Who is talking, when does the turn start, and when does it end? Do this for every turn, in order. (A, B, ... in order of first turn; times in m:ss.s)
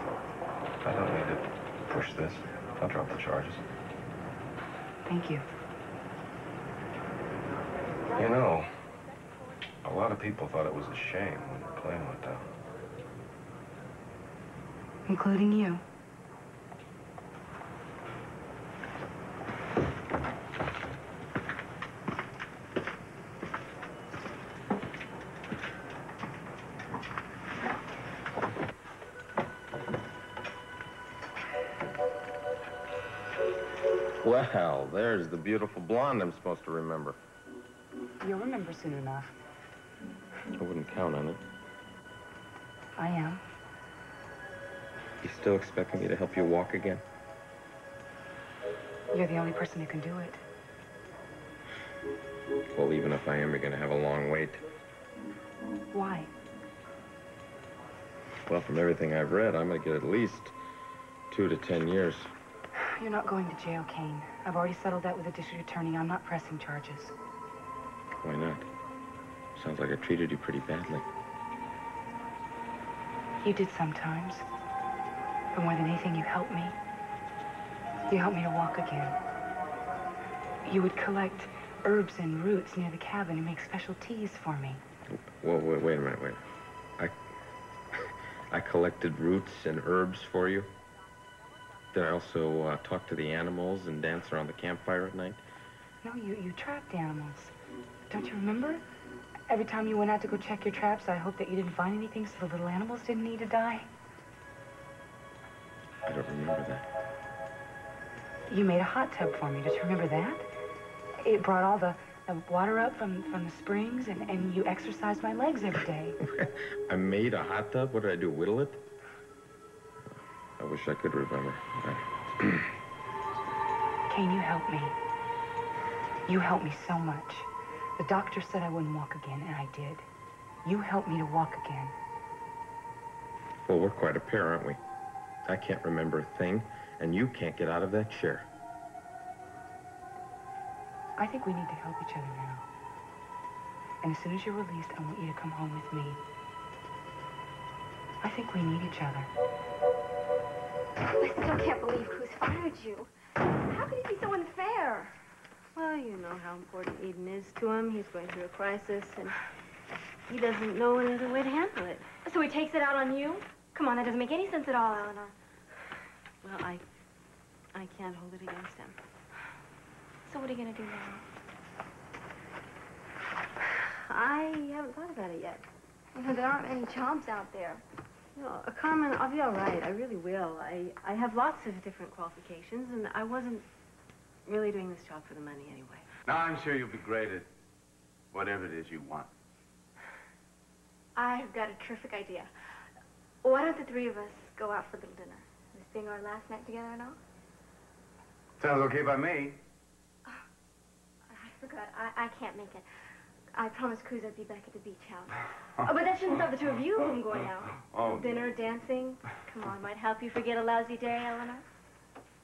0:00.8-0:03.6 A
0:05.1-0:05.4 B
0:08.1-0:08.7 A
0:09.8-0:12.5 A
0:15.1-0:15.8 B
0:34.2-0:37.2 C
0:38.2-0:39.3 B
0:40.5-0:41.4 C
0:43.0-0:43.4 B
0:45.2-0:47.0 C
0:49.1-0:50.4 B
0:52.7-0:54.6 C
0:55.9-0:56.3 B
0:58.4-1:00.5 C
1:01.3-1:02.3 C
1:02.8-1:07.1 B
1:08.2-1:08.7 C
1:09.5-1:11.0 C
1:13.4-1:14.4 B
1:15.5-1:16.8 B
1:18.1-1:19.2 B
1:20.6-1:24.8 B
1:25.1-1:26.4 C
1:28.5-1:30.7 C
1:31.9-1:35.4 C
1:36.0-1:37.5 B
1:38.1-1:38.8 B
1:39.5-1:43.9 B
1:46.0-1:46.9 C
1:48.5-1:50.5 B
1:51.2-1:56.2 B
1:56.4-1:58.8 C
2:00.6-2:02.6 C
2:04.1-2:05.0 B
2:06.3-2:10.0 B
2:10.6-2:11.9 B
2:13.6-2:14.8 C
2:15.4-2:18.5 C
2:21.2-2:22.6 B
2:24.0-2:26.2 B
2:28.2-2:29.3 B
2:31.1-2:33.1 D
2:33.6-2:35.1 D
2:35.7-2:39.3 E
2:40.3-2:42.0 E
2:42.2-2:45.3 D
2:46.4-2:46.8 E
2:47.7-2:49.0 E
2:50.2-2:51.2 D
2:53.6-2:55.6 E
2:56.1-2:57.8 D
2:58.4-3:03.6 E
3:04.4-3:06.1 E
3:06.2-3:07.5 F
3:08.3-3:09.3 F
3:11.2-3:12.5 D
3:13.4-3:17.2 D
3:18.6-3:19.6 F
3:21.3-3:22.8 D
3:23.5-3:31.6 D
3:27.7-3:28.5 F